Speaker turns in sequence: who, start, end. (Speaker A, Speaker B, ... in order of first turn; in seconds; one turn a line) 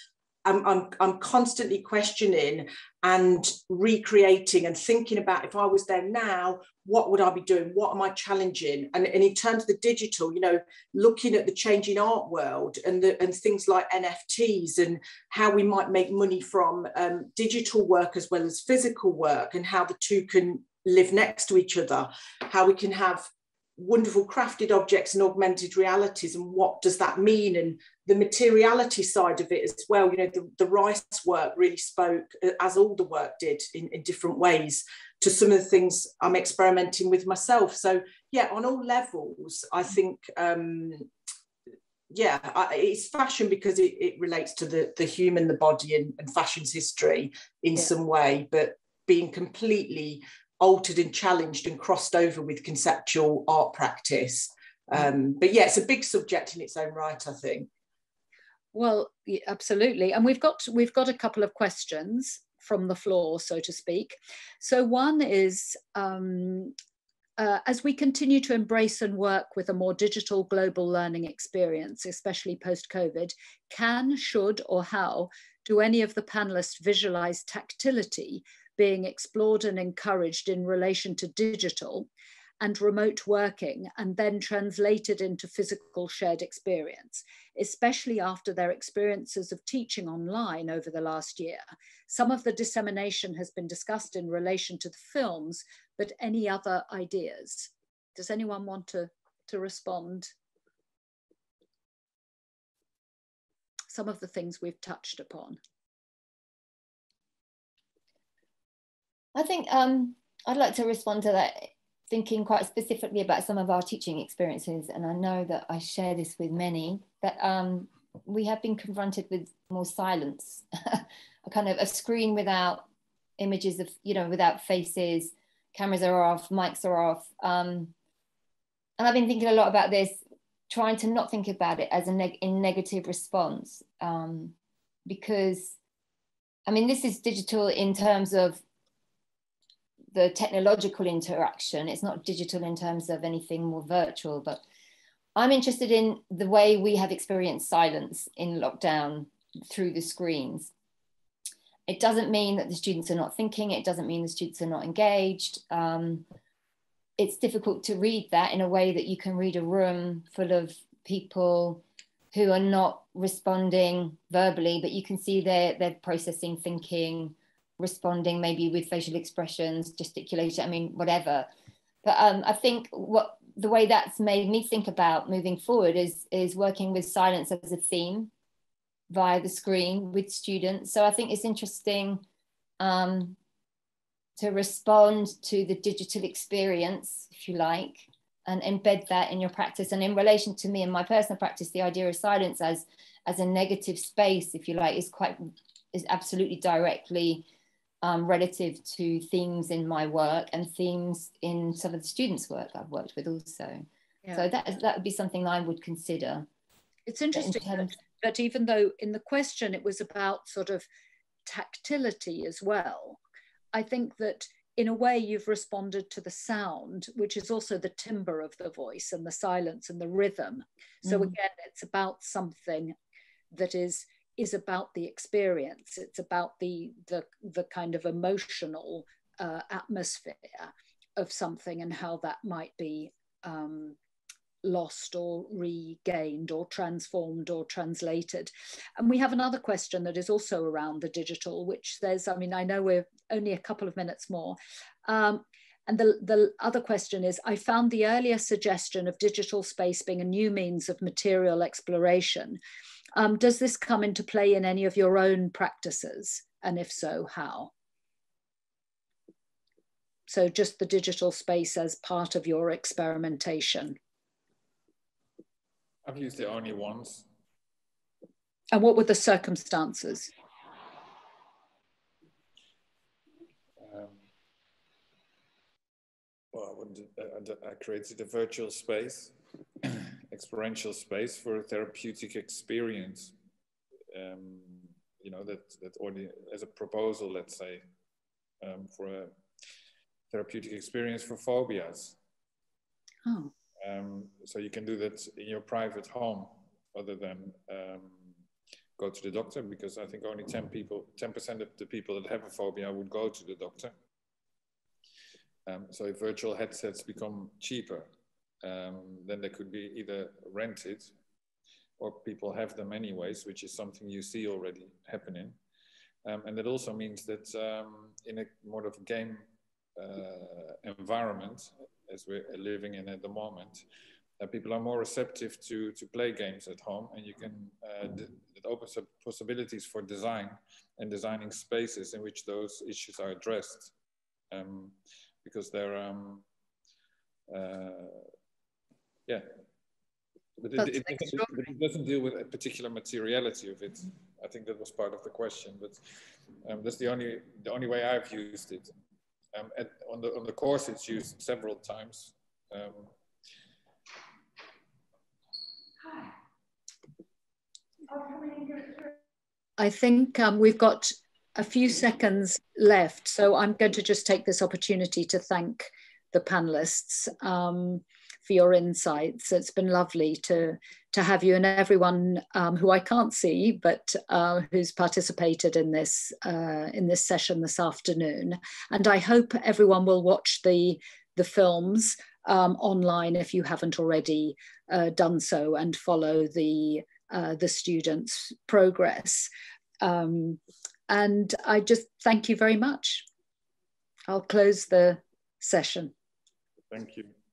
Speaker A: 0.5-41.1
Speaker A: 42.1-57.7
Speaker B: 58.7-66.8
Speaker B: 67.4-82.1
Speaker B: 82.6-100.3
Speaker B: 103.9-105.6
Speaker C: 109.3-122.9
Speaker C: 123.4-127.9
Speaker C: 129.0-134.5
Speaker C: 135.1-135.8
Speaker C: 136.7-138.6
Speaker C: 140.1-144.6
Speaker C: 145.4-150.7
Speaker C: 151.9-156.2
Speaker C: 157.2-161.8
Speaker C: 162.3-171.5
Speaker C: 172.0-178.3
Speaker C: 179.1-182.2
Speaker C: 182.8-183.4
Speaker C: 184.4-197.4
Speaker C: 198.0-203.8
Speaker C: 204.4-206.5
Speaker B: 207.1-210.9
Speaker C: 207.3-207.9
Speaker B: 211.4-213.2
Speaker B: 213.7-222.9
Speaker B: 223.5-234.0
Speaker B: 234.6-252.6
Speaker B: 253.2-257.7
Speaker B: 260.3-264.0
Speaker D: 266.1-267.2
Speaker B: 268.7-270.3
Speaker D: 273.8-274.2
Speaker D: 276.5-283.3
Speaker D: 284.1-287.8
Speaker D: 288.6-289.3
Speaker D: 290.3-292.2
Speaker B: 293.2-293.5
Speaker D: 293.8-298.3
Speaker D: 299.0-303.9
Speaker D: 305.7-308.1
Speaker D: 308.6-311.1
Speaker D: 312.0-315.6
Speaker D: 316.2-323.8
Speaker D: 324.4-333.9
Speaker D: 334.5-336.4
Speaker D: 337.5-338.3
Speaker D: 340.6-346.0
Speaker B: 340.8-341.5
Speaker D: 346.6-348.9
Speaker D: 349.5-353.1
Speaker B: 359.8-389.5
Speaker B: 390.0-393.3
Speaker B: 394.3-396.1
Speaker D: 396.9-397.3